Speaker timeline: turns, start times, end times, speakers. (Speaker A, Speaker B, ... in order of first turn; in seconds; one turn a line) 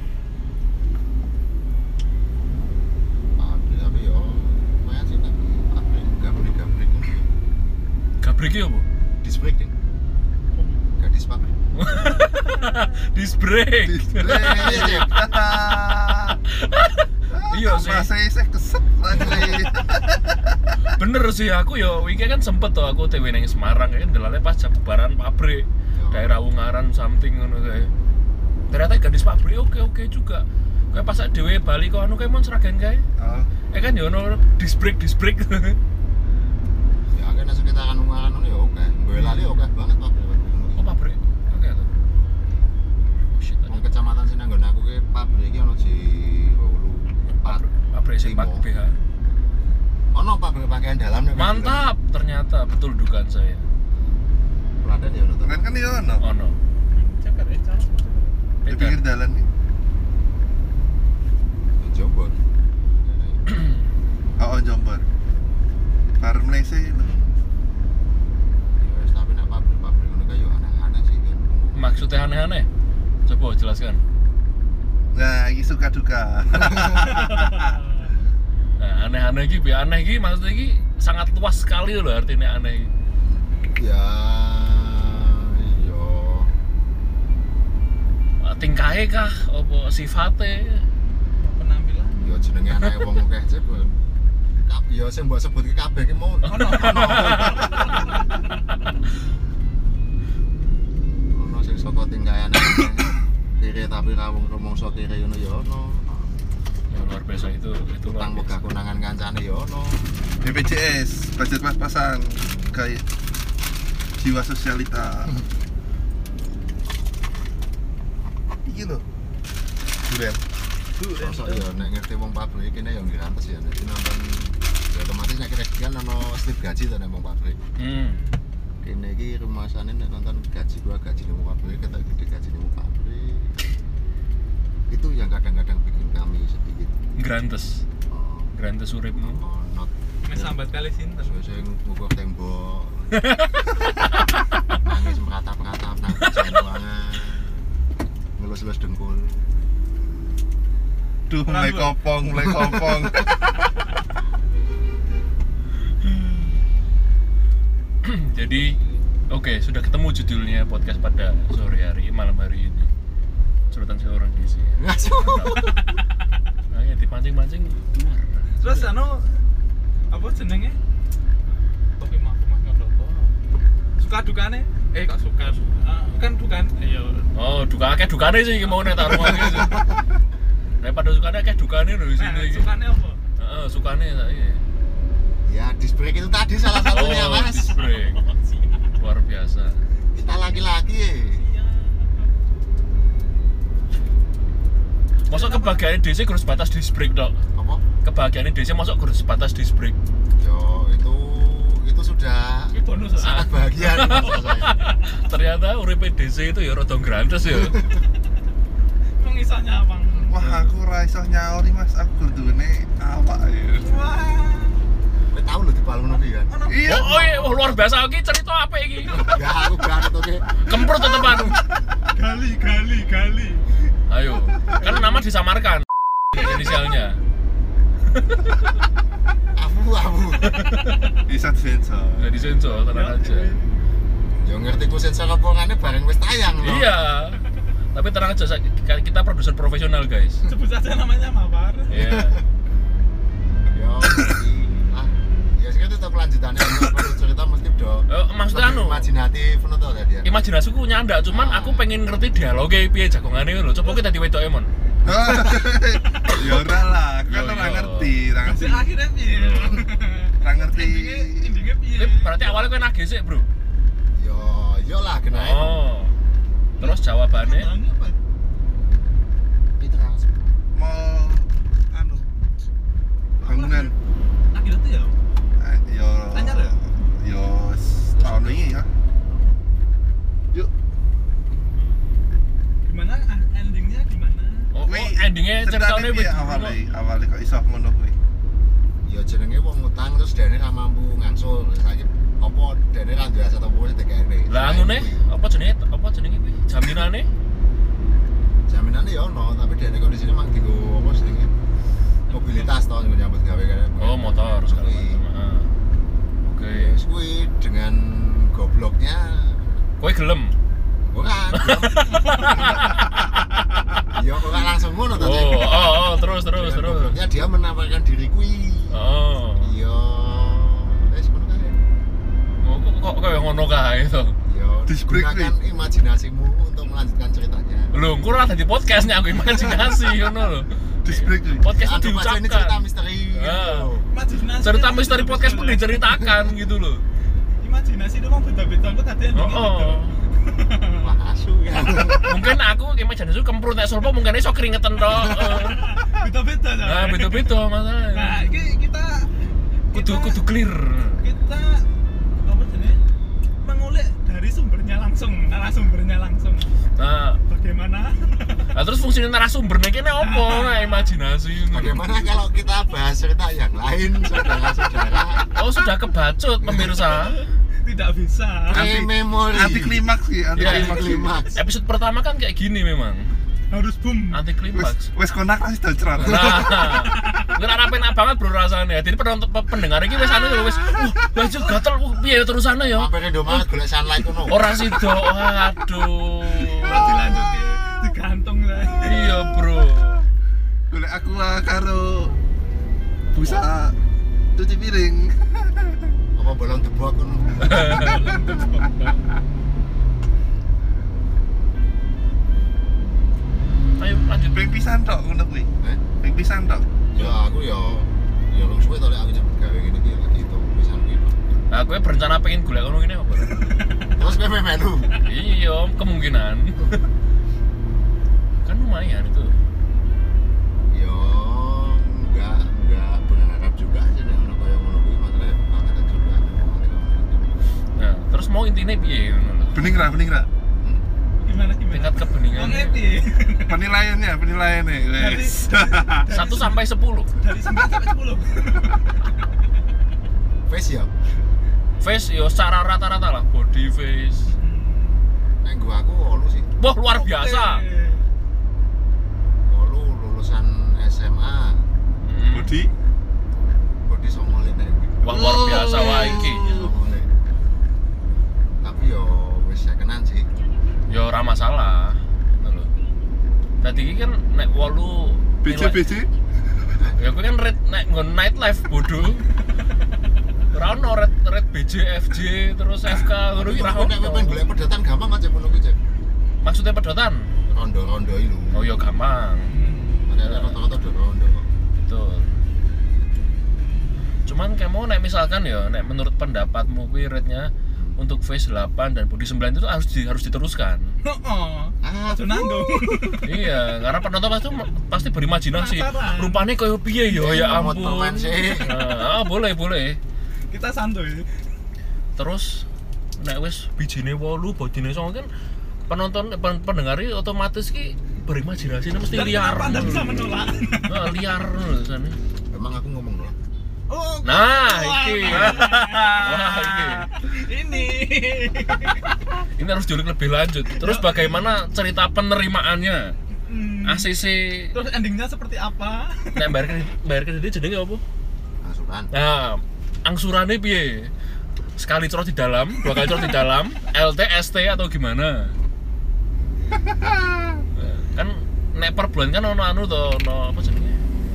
Speaker A: 3.4-7.3
Speaker B: 8.2-8.8
Speaker A: 9.2-9.7
Speaker C: 10.5-10.9
Speaker A: 11.0-11.5
Speaker B: 11.7-15.1
Speaker D: 13.8-16.4
Speaker A: 14.2-15.2
Speaker B: 16.5-18.1
Speaker D: 17.3-20.0
Speaker A: 19.1-19.5
Speaker B: 20.9-27.9
Speaker A: 25.9-26.3
Speaker B: 28.7-33.0
Speaker D: 33.2-33.5
Speaker B: 33.7-35.8
Speaker A: 37.1-40.9
Speaker B: 39.1-39.6
Speaker B: 40.8-41.9
Speaker B: 43.3-43.8
Speaker A: 43.6-47.6
Speaker B: 47.4-49.0
Speaker A: 48.2-48.7
Speaker A: 50.1-51.8
Speaker B: 51.4-53.6
Speaker A: 54.8-55.7
Speaker D: 55.4-56.2
Speaker B: 56.2-56.5
Speaker C: 56.8-58.4
Speaker B: 58.6-59.0
Speaker D: 58.7-59.5
Speaker A: 61.8-62.4
Speaker A: 63.0-63.6
Speaker B: 63.5-63.7
Speaker D: 64.4-65.0
Speaker D: 66.2-67.1
Speaker A: 67.0-67.4
Speaker A: 68.8-72.1
Speaker B: 71.7-72.7
Speaker B: 73.3-74.0
Speaker D: 75.1-77.7
Speaker A: 76.6-76.9
Speaker C: 77.2-78.1
Speaker B: 78.8-82.9
Speaker A: 83.3-86.5
Speaker B: 88.4-90.8
Speaker C: 91.4-92.6
Speaker A: 92.2-94.0
Speaker A: 94.6-97.9
Speaker C: 96.4-98.3
Speaker B: 96.5-97.7
Speaker A: 101.3-106.3
Speaker B: 106.9-108.5
Speaker A: 108.0-110.1
Speaker D: 110.4-113.0
Speaker D: 114.2-115.4
Speaker D: 118.6-119.0
Speaker D: 120.0-120.4
Speaker C: 121.0-121.7
Speaker A: 121.2-127.6
Speaker B: 127.8-128.2
Speaker C: 128.0-128.4
Speaker A: 128.8-133.6
Speaker A: 134.9-136.9
Speaker B: 137.2-137.8
Speaker A: 138.1-138.5
Speaker B: 138.5-139.4
Speaker A: 139.2-140.6
Speaker C: 140.2-141.6
Speaker A: 141.2-143.3
Speaker B: 143.1-143.5
Speaker A: 144.8-147.6
Speaker B: 146.2-146.5
Speaker A: 148.4-149.5
Speaker D: 151.3-153.4
Speaker C: 151.4-152.0
Speaker B: 158.0-158.8
Speaker B: 159.3-162.9
Speaker B: 163.7-165.7
Speaker A: 164.8-165.7
Speaker B: 166.7-168.9
Speaker C: 168.6-169.4
Speaker C: 170.1-170.8
Speaker C: 172.0-173.3
Speaker C: 174.0-177.3
Speaker B: 177.3-179.9
Speaker A: 178.9-180.0
Speaker B: 180.8-182.7
Speaker C: 182.2-183.2
Speaker B: 183.4-184.6
Speaker A: 185.5-187.7
Speaker B: 186.9-188.2
Speaker C: 186.9-189.0
Speaker B: 189.0-189.8
Speaker A: 190.2-191.4
Speaker C: 191.3-192.3
Speaker B: 195.3-197.4
Speaker C: 195.3-195.9
Speaker A: 197.5-197.8
Speaker B: 198.0-200.0
Speaker A: 200.4-204.7
Speaker C: 202.7-205.2
Speaker B: 203.2-207.8
Speaker A: 207.4-208.0
Speaker C: 209.2-210.4
Speaker D: 210.3-213.9
Speaker B: 210.4-210.7
Speaker C: 213.8-214.9
Speaker A: 215.3-216.5
Speaker C: 216.5-217.1
Speaker D: 216.7-217.6
Speaker B: 216.8-219.4
Speaker A: 219.1-221.6
Speaker B: 220.6-221.6
Speaker C: 222.1-223.7
Speaker B: 224.1-227.2
Speaker C: 226.3-226.8
Speaker B: 228.1-228.4
Speaker A: 229.5-230.7
Speaker B: 230.5-230.9
Speaker D: 231.2-232.5
Speaker B: 232.2-233.6
Speaker C: 232.8-233.7
Speaker A: 234.4-236.9
Speaker B: 236.6-237.4
Speaker B: 237.9-240.4
Speaker C: 240.4-241.9
Speaker B: 241.9-242.4
Speaker A: 241.9-242.4
Speaker A: 243.7-250.3
Speaker B: 248.1-249.1
Speaker B: 250.2-254.7
Speaker A: 251.3-251.9
Speaker D: 255.0-258.9
Speaker C: 256.2-256.6
Speaker B: 257.2-258.1
Speaker C: 258.4-262.6
Speaker A: 259.4-259.9
Speaker D: 260.4-261.5
Speaker B: 262.0-263.5
Speaker A: 264.1-265.8
Speaker B: 265.3-266.1
Speaker B: 266.8-267.7
Speaker C: 266.8-268.2
Speaker A: 269.8-270.6
Speaker D: 270.7-272.3
Speaker D: 273.4-273.9
Speaker C: 273.4-273.9
Speaker C: 274.5-275.2
Speaker D: 275.6-278.9
Speaker C: 276.3-276.8
Speaker A: 278.2-278.6
Speaker C: 281.7-282.1
Speaker C: 282.8-284.7
Speaker B: 284.7-286.8
Speaker D: 284.8-288.1
Speaker A: 289.0-295.2
Speaker B: 294.5-297.3
Speaker A: 298.7-301.5
Speaker C: 302.3-302.7
Speaker A: 302.3-305.2
Speaker B: 304.0-305.7
Speaker B: 306.4-306.9
Speaker A: 306.7-309.8
Speaker B: 310.0-310.6
Speaker A: 311.1-313.0
Speaker B: 311.5-313.6
Speaker A: 314.1-319.0
Speaker B: 315.1-317.2
Speaker B: 318.9-319.7
Speaker A: 319.6-321.8
Speaker B: 322.6-324.4
Speaker A: 324.4-327.9
Speaker D: 324.9-325.5
Speaker B: 327.9-332.8
Speaker D: 331.0-331.6
Speaker A: 331.7-334.1
Speaker B: 333.3-333.9
Speaker C: 334.1-336.0
Speaker B: 334.6-337.0
Speaker C: 337.6-341.1
Speaker B: 339.3-340.2
Speaker A: 341.0-342.3
Speaker B: 342.2-346.0
Speaker A: 345.1-345.6
Speaker C: 345.3-347.5
Speaker B: 346.8-348.5
Speaker C: 348.1-350.4
Speaker B: 349.9-351.2
Speaker C: 351.2-351.9
Speaker C: 352.4-353.0
Speaker C: 353.6-356.7
Speaker B: 357.0-357.4
Speaker C: 357.5-358.7
Speaker B: 358.7-362.0
Speaker C: 360.2-361.2
Speaker A: 361.6-365.4
Speaker B: 365.5-367.4
Speaker C: 367.1-368.9
Speaker D: 368.7-371.3
Speaker A: 368.7-370.0
Speaker B: 370.5-373.3
Speaker A: 370.6-371.6
Speaker C: 373.7-374.4
Speaker B: 374.3-375.1
Speaker D: 374.7-376.8
Speaker B: 376.2-383.1
Speaker C: 377.0-377.5
Speaker C: 380.2-381.0
Speaker A: 382.9-384.8
Speaker B: 384.4-387.1
Speaker C: 386.7-389.5
Speaker A: 386.9-387.6
Speaker D: 386.9-387.4
Speaker B: 389.0-390.2
Speaker D: 390.9-392.3
Speaker D: 393.3-393.9
Speaker B: 393.4-393.6
Speaker D: 394.6-396.1
Speaker A: 396.3-398.0
Speaker B: 397.6-398.2
Speaker C: 397.8-399.2
Speaker D: 397.8-399.1
Speaker B: 404.0-404.6
Speaker D: 404.5-406.9
Speaker A: 407.1-411.4
Speaker B: 411.7-413.6
Speaker A: 414.1-415.1
Speaker B: 415.2-417.0
Speaker B: 418.6-419.5
Speaker A: 420.9-427.6
Speaker B: 427.9-429.9
Speaker D: 429.7-430.5
Speaker C: 431.4-433.8
Speaker B: 431.9-433.0
Speaker D: 433.6-436.3
Speaker C: 435.1-439.5
Speaker B: 436.3-437.3
Speaker A: 440.7-441.1
Speaker B: 442.0-444.5
Speaker C: 444.5-445.2
Speaker A: 445.6-446.7
Speaker B: 446.8-447.8
Speaker C: 447.0-448.3
Speaker A: 449.7-451.9
Speaker B: 452.2-452.8
Speaker D: 452.5-452.9
Speaker A: 454.0-457.3
Speaker B: 455.2-456.7
Speaker D: 455.2-456.9
Speaker A: 458.8-460.5
Speaker B: 461.1-462.9
Speaker B: 463.8-466.0
Speaker D: 465.6-466.3
Speaker B: 467.1-469.4
Speaker B: 470.7-474.6
Speaker A: 473.5-476.0
Speaker B: 476.6-477.5
Speaker A: 477.7-478.9
Speaker B: 478.7-479.7
Speaker C: 479.7-480.2
Speaker A: 480.3-481.7
Speaker B: 480.4-480.8
Speaker B: 482.0-482.5
Speaker B: 484.4-491.2
Speaker A: 487.9-488.2
Speaker C: 491.2-493.5
Speaker A: 492.0-493.4
Speaker B: 493.4-500.2
Speaker C: 495.6-496.6
Speaker A: 497.3-498.9
Speaker C: 498.6-499.1
Speaker C: 500.7-501.5
Speaker B: 502.4-505.5
Speaker B: 506.1-510.5
Speaker C: 509.3-511.4
Speaker B: 511.0-512.4
Speaker A: 512.7-513.5
Speaker C: 514.1-519.6
Speaker B: 514.4-517.3
Speaker A: 515.5-515.8
Speaker B: 519.8-523.4
Speaker C: 520.9-521.7
Speaker C: 523.6-524.3
Speaker B: 524.0-524.9
Speaker C: 524.9-526.9
Speaker B: 526.5-528.2
Speaker A: 528.8-529.3
Speaker B: 529.3-531.3
Speaker B: 531.9-535.7
Speaker C: 533.1-533.5
Speaker D: 537.0-537.8
Speaker B: 537.9-541.2